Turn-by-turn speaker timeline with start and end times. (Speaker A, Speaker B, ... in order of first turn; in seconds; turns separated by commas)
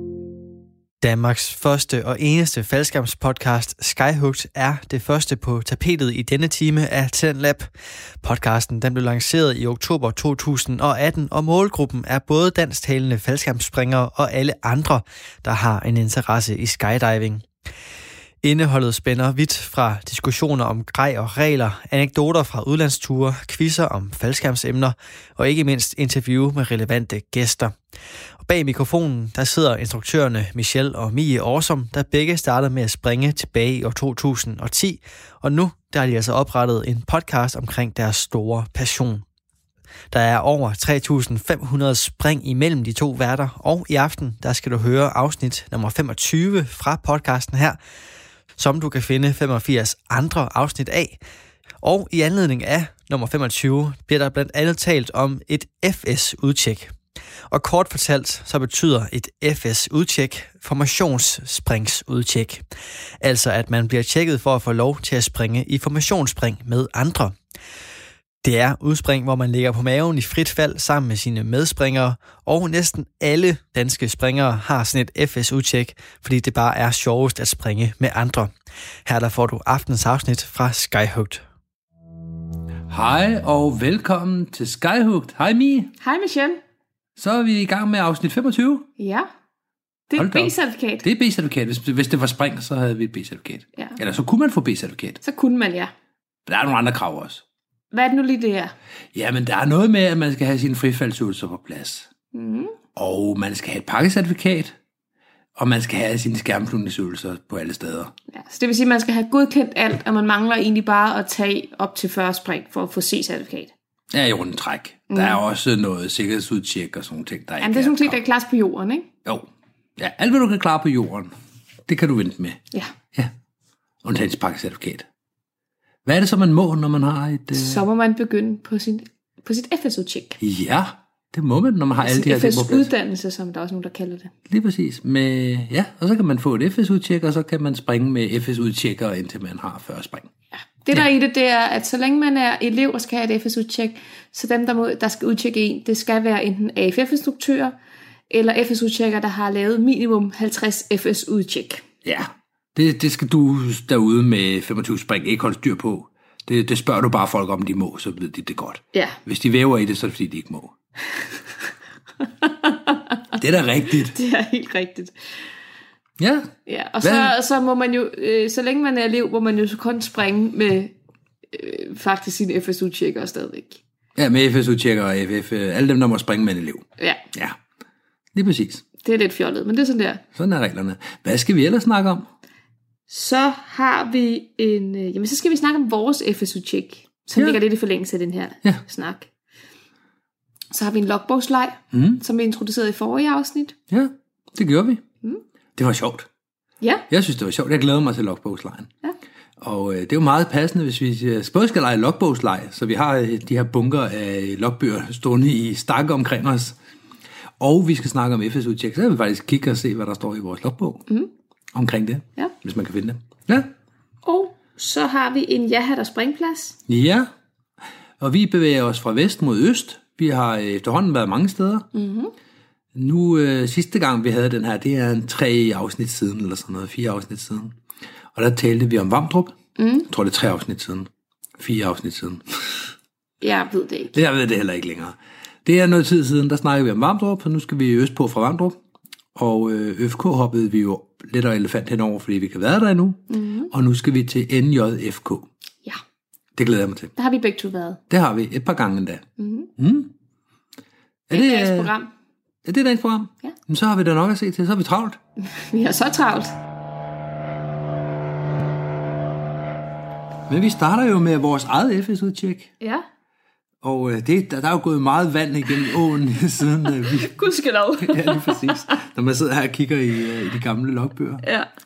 Speaker A: 1.0-7.7, Speaker A: 8.2-17.4, Speaker A: 18.4-27.7, Speaker A: 28.4-39.2, Speaker A: 40.1-47.8, Speaker A: 48.6-51.2, Speaker A: 51.8-56.9, Speaker A: 57.5-62.6, Speaker A: 63.2-67.3, Speaker A: 68.4-78.5, Speaker A: 79.1-81.4, Speaker B: 82.9-85.9, Speaker C: 86.0-86.6, Speaker B: 87.2-88.9, Speaker C: 89.0-89.3, Speaker C: 90.1-91.1, Speaker B: 90.1-95.2, Speaker C: 95.2-95.9, Speaker B: 96.5-97.4, Speaker C: 97.9-98.7, Speaker B: 99.1-102.1, Speaker C: 102.3-102.8, Speaker B: 103.0-104.8, Speaker B: 105.6-108.1, Speaker C: 108.3-113.7, Speaker B: 114.1-118.2, Speaker C: 115.1-115.4, Speaker C: 117.6-119.1, Speaker B: 119.2-121.3, Speaker B: 121.9-123.3, Speaker B: 124.0-125.1, Speaker B: 126.0-127.8, Speaker C: 127.5-130.4, Speaker B: 130.4-132.9, Speaker C: 132.0-134.3, Speaker B: 134.5-140.3, Speaker C: 140.8-147.8, Speaker C: 148.3-151.8, Speaker B: 152.0-160.7, Speaker C: 162.4-163.0, Speaker B: 163.4-164.2, Speaker C: 164.1-165.1, Speaker B: 166.2-166.5, Speaker C: 166.7-170.9, Speaker B: 167.0-167.3, Speaker C: 171.5-173.8, Speaker B: 174.2-177.6, Speaker C: 177.0-177.2, Speaker B: 178.3-178.8, Speaker C: 179.0-180.2, Speaker B: 180.3-182.3, Speaker C: 183.1-189.3, Speaker B: 187.4-187.6, Speaker C: 190.7-193.8, Speaker B: 191.9-192.2, Speaker B: 193.9-195.0, Speaker B: 195.8-196.3, Speaker B: 197.1-198.9, Speaker B: 199.6-206.8, Speaker B: 207.6-211.1, Speaker B: 211.7-213.7, Speaker C: 214.2-216.8, Speaker B: 216.9-217.3, Speaker B: 218.2-221.9, Speaker C: 221.9-222.3, Speaker B: 222.9-227.8, Speaker B: 228.3-229.6, Speaker C: 229.8-230.1, Speaker B: 230.1-232.9, Speaker C: 233.4-234.2, Speaker B: 234.1-238.8, Speaker B: 239.3-245.5, Speaker C: 243.3-243.7, Speaker B: 246.6-247.1, Speaker C: 247.2-248.0, Speaker B: 248.1-249.2, Speaker C: 249.4-249.7, Speaker B: 249.8-250.1, Speaker B: 251.3-251.9, Speaker C: 251.3-252.1, Speaker B: 252.7-255.2, Speaker C: 255.4-256.5, Speaker B: 260.5-262.7, Speaker B: 263.8-267.4, Speaker C: 267.0-269.0, Speaker B: 268.0-271.4, Speaker C: 271.4-271.7